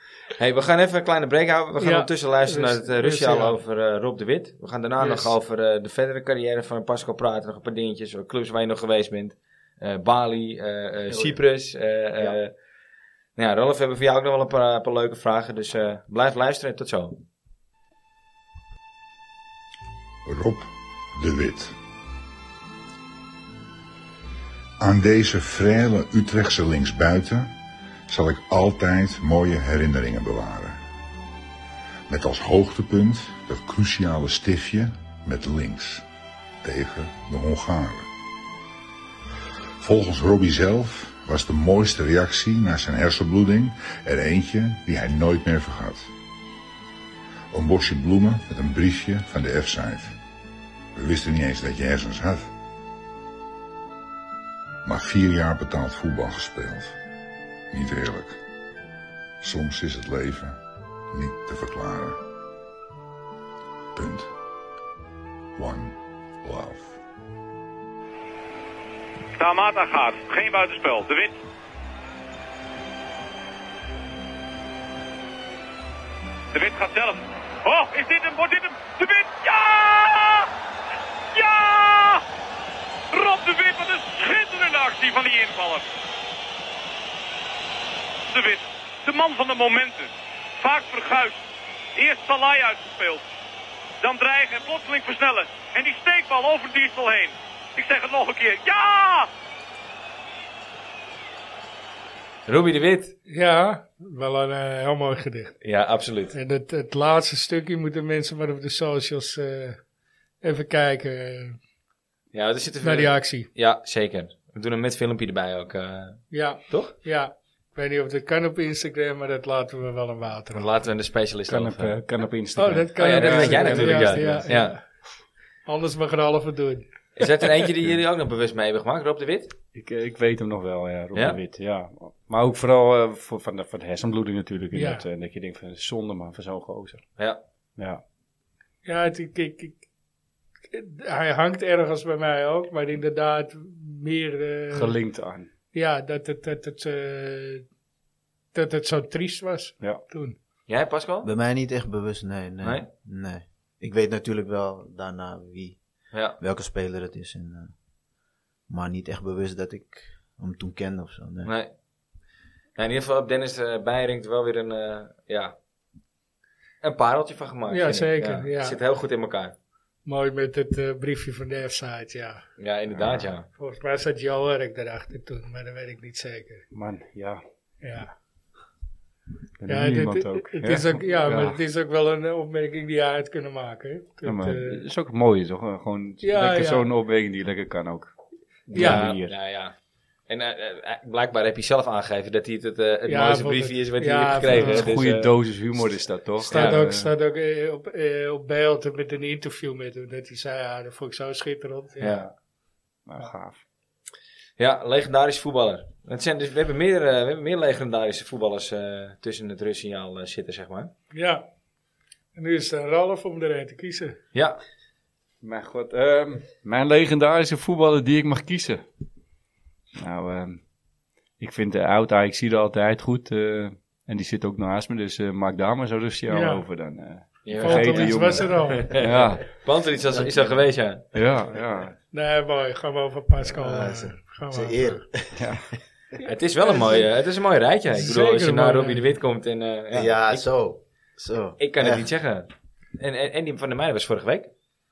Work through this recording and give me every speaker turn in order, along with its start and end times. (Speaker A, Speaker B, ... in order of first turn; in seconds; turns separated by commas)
Speaker A: 0.4-12.5, Speaker B: 1.8-3.6, Speaker B: 5.0-5.3, Speaker C: 11.1-11.4, Speaker A: 13.4-17.2, Speaker D: 20.2-21.7, Speaker D: 24.8-27.5, Speaker D: 28.1-30.8, Speaker D: 32.1-36.0, Speaker D: 36.6-38.1, Speaker D: 39.8-46.1, Speaker D: 47.5-50.2, Speaker D: 50.9-52.5, Speaker D: 54.8-57.0, Speaker D: 57.7-58.4, Speaker D: 59.4-60.6, Speaker D: 61.1-62.2, Speaker D: 63.9-64.3, Speaker D: 65.5-67.0, Speaker E: 69.3-71.4, Speaker E: 76.5-80.5, Speaker E: 81.3-82.2, Speaker E: 83.1-85.9, Speaker E: 88.3-91.4, Speaker E: 92.0-93.2, Speaker E: 94.0-99.3, Speaker A: 102.5-103.2, Speaker B: 103.3-105.6, Speaker A: 105.6-106.3, Speaker B: 106.3-109.8, Speaker B: 110.4-111.6, Speaker A: 112.3-116.9, Speaker B: 112.8-113.5, Speaker B: 116.3-120.7, Speaker A: 120.5-122.0, Speaker F: 121.5-124.5, Speaker B: 122.5-124.8, Speaker A: 123.0-124.8, Speaker B: 125.7-126.9, Speaker A: 127.2-129.5, Speaker F: 129.7-137.0, Speaker A: 131.1-131.4, Speaker B: 134.7-135.1, Speaker F: 137.8-138.0, Speaker B: 138.8-139.8, Speaker B: 140.7-144.9, Speaker F: 144.7-145.5, Speaker B: 145.7-147.6, Speaker B: 148.5-150.3, Speaker A: 150.7-151.3, Speaker C: 151.2-155.8, Speaker A: 156.1-156.4, Speaker C: 156.4-157.7, Speaker C: 158.7-161.5, Speaker A: 161.4-161.7, Speaker A: 162.8-165.5, Speaker A: 166.8-169.5, Speaker B: 167.7-168.8, Speaker B: 170.1-172.4, Speaker A: 172.6-173.5, Speaker F: 172.9-173.3, Speaker B: 173.6-176.7, Speaker F: 176.7-177.4, Speaker B: 177.8-178.1, Speaker F: 179.6-181.6, Speaker B: 179.7-184.8, Speaker F: 184.2-188.1, Speaker B: 186.2-186.9, Speaker F: 188.7-189.3, Speaker C: 188.7-188.9, Speaker B: 188.7-189.0, Speaker A: 188.7-189.7, Speaker A: 190.3-195.9, Speaker B: 193.1-194.8, Speaker F: 194.5-197.1, Speaker A: 196.4-196.8, Speaker B: 196.5-202.2, Speaker F: 202.0-202.3, Speaker F: 203.1-203.6, Speaker A: 204.6-210.9, Speaker B: 211.1-211.4, Speaker B: 212.3-214.2, Speaker A: 214.3-214.6, Speaker F: 215.4-218.8, Speaker F: 220.0-220.6, Speaker F: 221.4-229.5, Speaker B: 226.3-226.6, Speaker A: 227.4-231.1, Speaker B: 227.6-228.9, Speaker C: 230.1-230.7, Speaker F: 231.1-231.9, Speaker B: 232.1-235.0, Speaker C: 233.4-235.6, Speaker F: 235.3-235.7, Speaker B: 236.1-237.1, Speaker A: 236.2-240.4, Speaker B: 237.9-239.0, Speaker C: 239.9-242.1, Speaker A: 241.6-244.5